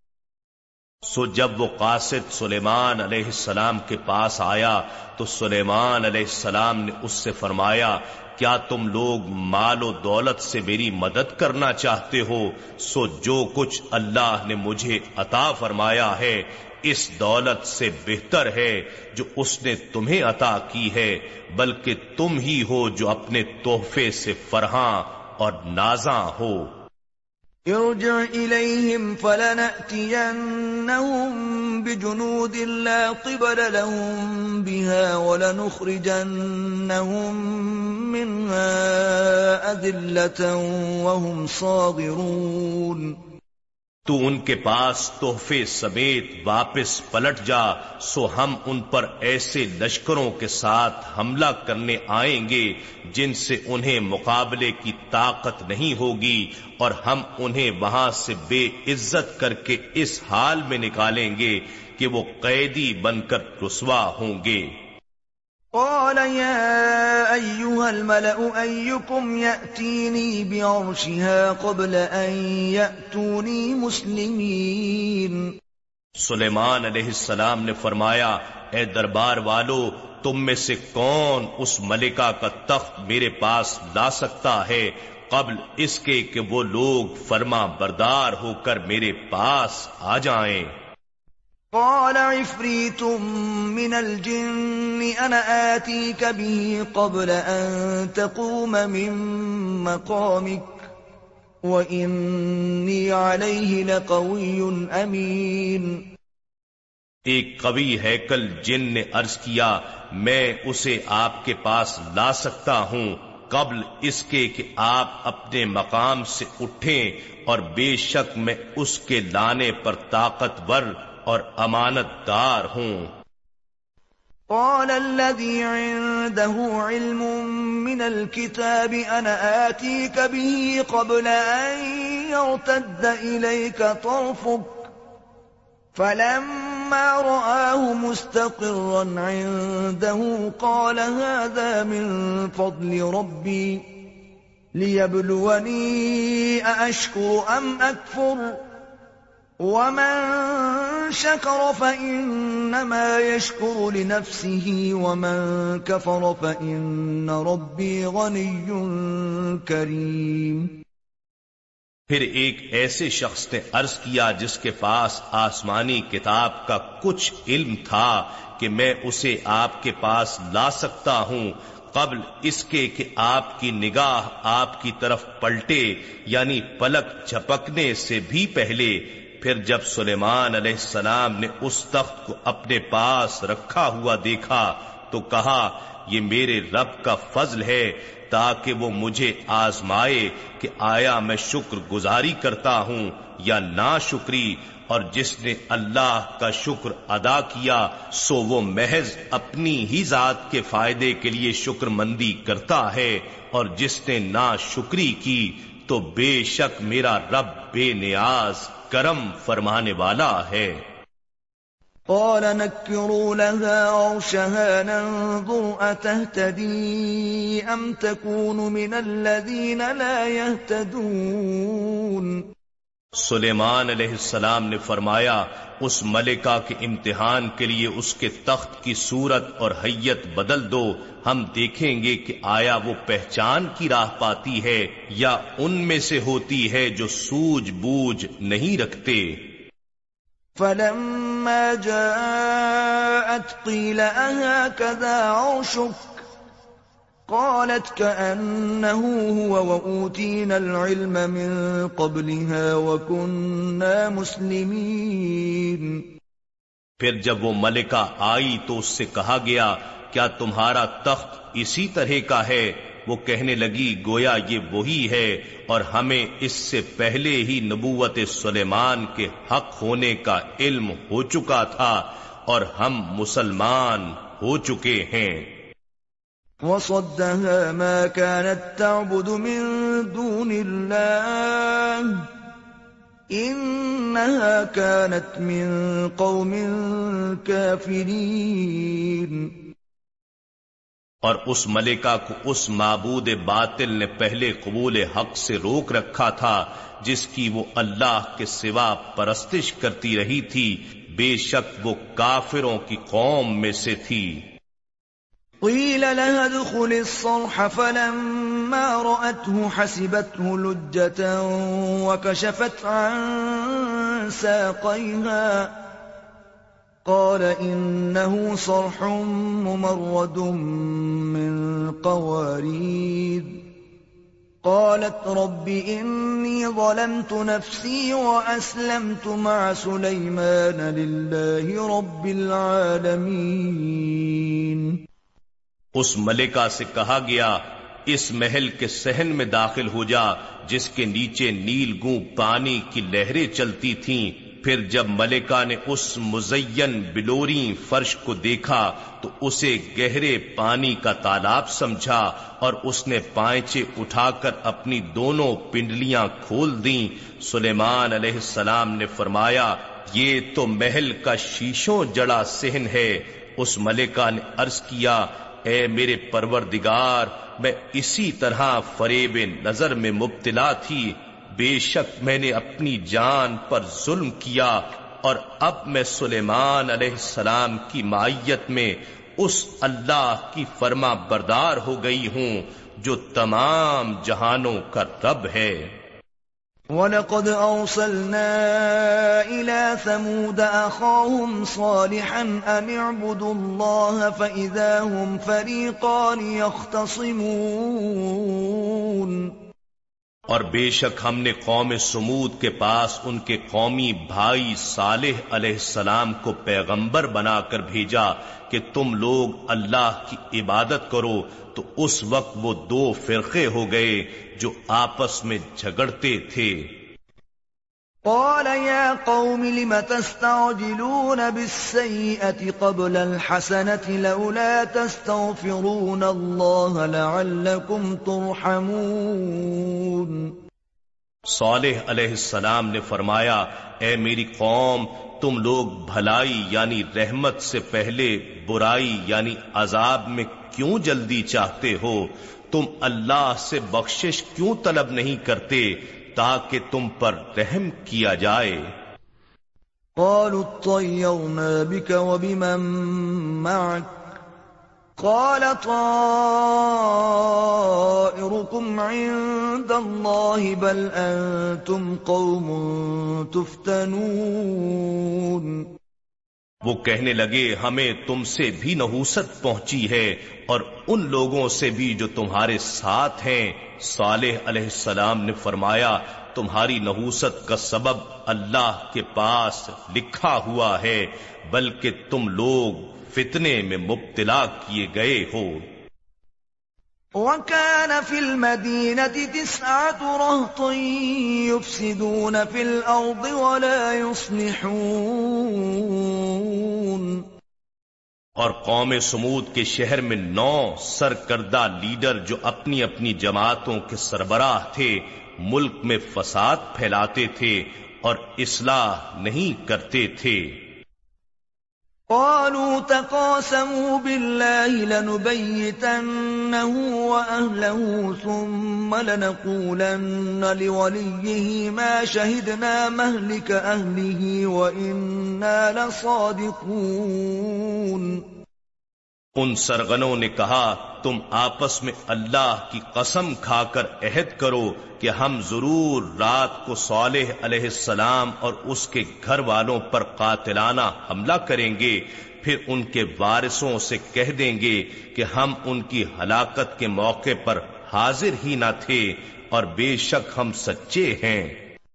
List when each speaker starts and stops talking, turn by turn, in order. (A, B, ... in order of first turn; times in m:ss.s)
0:01.0-0:26.8 A
0:27.6-0:43.1 B
0:44.0-1:04.8 A
1:05.7-1:15.5 B
1:16.2-1:30.7 A
1:31.7-1:40.9 B
1:41.6-1:46.0 B
1:47.2-2:03.1 A
2:04.5-2:14.9 B
2:15.9-2:23.8 B
2:24.7-2:28.6 B
2:29.6-2:40.7 B
2:42.1-3:30.8 A
3:32.1-3:42.4 B
3:43.1-3:59.6 A
4:00.6-4:06.2 B
4:07.3-4:16.0 B
4:17.0-4:35.5 A
4:36.6-4:42.2 B
4:43.3-4:49.5 B
4:51.2-5:04.5 A
5:05.6-5:15.7 B
5:17.0-5:23.6 B
5:24.6-5:35.0 B
5:35.9-6:25.9 A
6:26.9-6:39.5 B
6:40.5-6:56.9 A
6:58.3-7:10.5 B
7:11.4-7:28.9 A
7:30.2-7:34.1 B
7:35.2-7:45.8 B
7:46.8-8:05.9 A
8:07.4-8:17.4 B
8:18.6-8:30.8 A
8:32.3-8:48.4 B
8:49.6-9:11.8 A